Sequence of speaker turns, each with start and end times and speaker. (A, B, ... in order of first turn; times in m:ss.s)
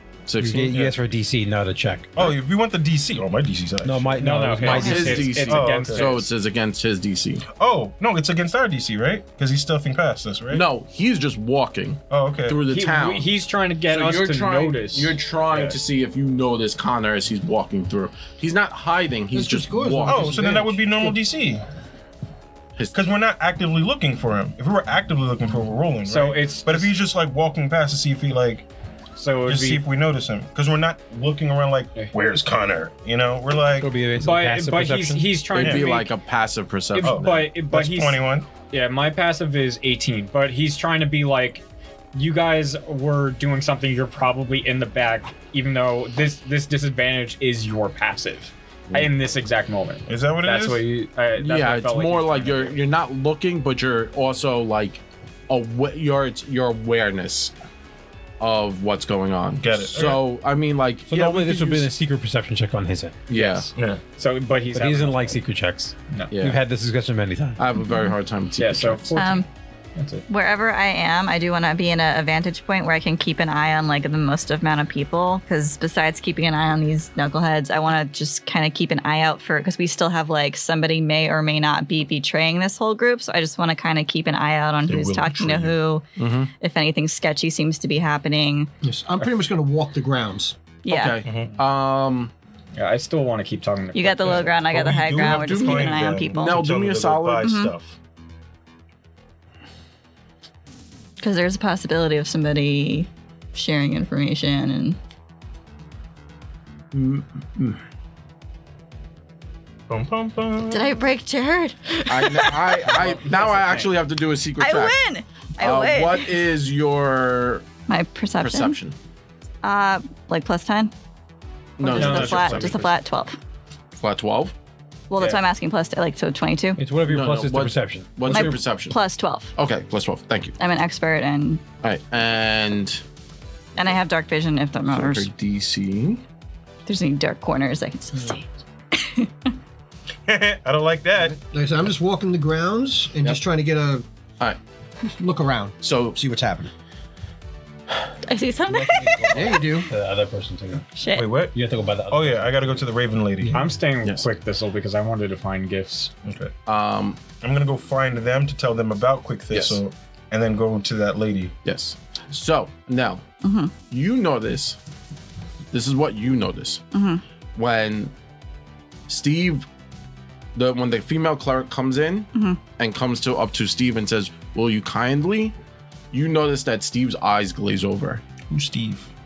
0:00.3-0:00.8 A
0:00.4-0:02.4 B
0:00.7-0:01.0 C
0:02.2-0:06.2 C
0:03.8-0:05.4 B
0:04.2-0:06.3 D
0:04.6-0:07.4 A
0:07.5-0:10.7 C
0:10.5-0:13.3 A
0:12.1-0:12.6 C
0:12.6-0:15.8 D
0:13.9-0:20.4 A
0:19.3-0:21.2 E
0:20.1-0:21.6 C
0:22.9-0:28.7 C
0:26.0-0:26.9 D
0:29.2-0:29.9 D
0:29.4-0:34.0 C
0:33.8-0:35.3 B
0:34.2-0:36.1 D
0:35.5-0:35.9 C
0:35.5-0:37.2 A
0:36.9-0:52.8 D
0:37.0-0:38.5 C
0:50.1-0:50.8 C
0:51.4-0:57.5 A
0:58.4-1:01.4 A
0:59.6-1:00.3 C
1:01.1-1:03.3 B
1:01.1-1:01.9 C
1:03.3-1:03.7 A
1:03.4-1:03.7 D
1:03.8-1:04.0 C
1:04.2-1:05.4 D
1:04.7-1:07.6 B
1:06.3-1:06.6 A
1:07.6-1:09.1 A
1:08.6-1:10.3 D
1:09.2-1:09.5 F
1:10.3-1:28.7 F
1:24.9-1:25.8 C
1:26.2-1:26.5 A
1:28.8-1:30.6 E
1:30.8-1:31.2 F
1:30.9-1:32.3 A
1:31.2-1:31.5 C
1:32.8-1:35.0 D
1:34.0-1:36.6 F
1:34.7-1:37.9 C
1:35.2-1:37.5 A
1:37.4-1:37.7 F
1:41.2-1:45.0 F
1:46.9-1:47.8 A
1:49.9-1:50.9 C
1:50.7-1:53.0 F
1:52.1-1:55.0 A
1:52.9-1:54.0 D
1:54.6-1:56.4 F
1:55.6-1:57.7 A
1:57.9-1:58.8 F
1:58.4-1:59.0 A
1:59.6-2:00.9 F
2:01.8-2:02.8 A
2:01.8-2:03.4 F
2:01.8-2:03.0 D
2:04.0-2:04.5 A
2:05.1-2:06.8 F
2:06.8-2:08.6 B
2:07.1-2:09.0 A
2:08.3-2:09.5 F
2:09.6-2:10.6 A
2:10.6-2:11.6 F
2:11.8-2:13.0 A
2:13.8-2:15.3 F
2:14.9-2:16.2 A
2:16.9-2:19.5 F
2:20.3-2:21.4 C
2:21.2-2:24.0 E
2:25.0-2:26.7 E
2:25.8-2:26.2 A
2:28.2-2:29.6 F
2:28.8-2:29.3 C
2:29.3-2:29.9 E
2:29.5-2:32.5 B
2:31.0-2:31.3 F
2:31.1-2:31.6 C
2:32.1-2:33.8 C
2:33.5-2:36.1 D
2:36.2-2:36.5 C
2:36.7-2:37.2 A
2:37.4-2:41.6 C
2:39.5-2:39.8 A
2:41.6-2:43.2 A
2:43.4-2:43.7 F
2:43.9-2:44.8 A
2:45.7-2:46.8 A
2:46.9-2:47.2 F
2:47.6-2:48.1 A
2:49.1-2:49.7 A
2:50.6-2:55.6 A
2:56.1-2:58.2 A
2:58.5-2:59.1 C